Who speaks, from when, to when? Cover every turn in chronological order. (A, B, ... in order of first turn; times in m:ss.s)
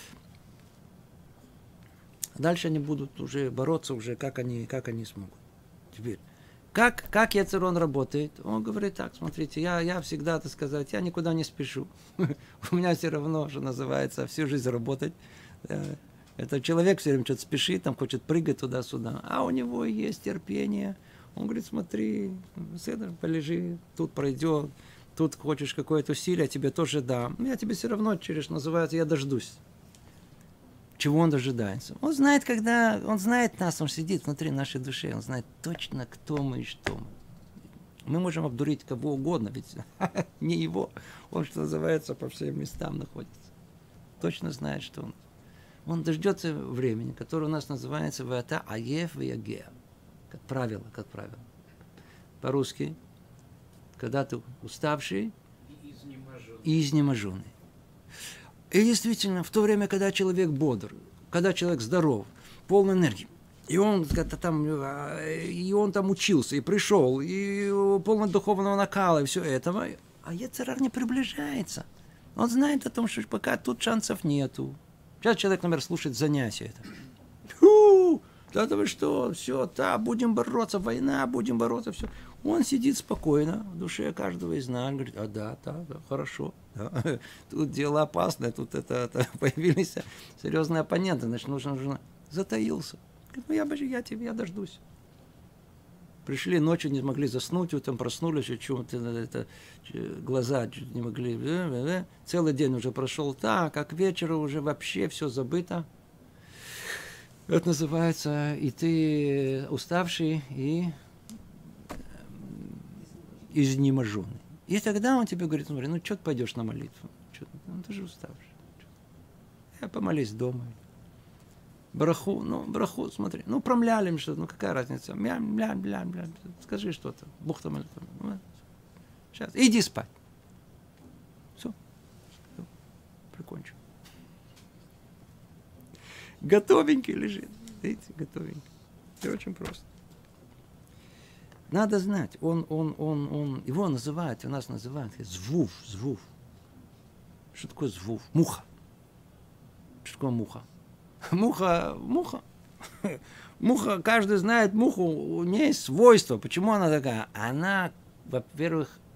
0:02.4-0:05.4 A
0:05.9-0:06.2 A
0:06.7-0:29.6 A
0:31.0-0:37.1 A
0:38.0-0:43.5 A
0:44.2-0:45.2 A
0:45.9-0:49.7 A
0:50.3-0:51.4 A
0:52.4-0:53.0 A
0:54.0-0:55.3 A
0:56.2-0:57.5 A
0:58.7-1:16.9 A
1:17.5-1:34.8 A
1:36.2-1:45.9 A
1:47.5-1:50.9 A
1:52.3-1:52.8 A
1:53.5-1:58.6 A
1:59.8-2:00.8 A
2:01.9-2:08.4 A
2:09.3-2:10.1 A
2:13.3-2:13.8 A
2:16.4-2:18.6 A
2:19.2-2:19.9 A
2:21.7-2:26.3 A
2:27.5-2:28.7 A
2:30.0-2:30.6 A
2:31.3-2:32.4 A
2:33.0-2:39.0 A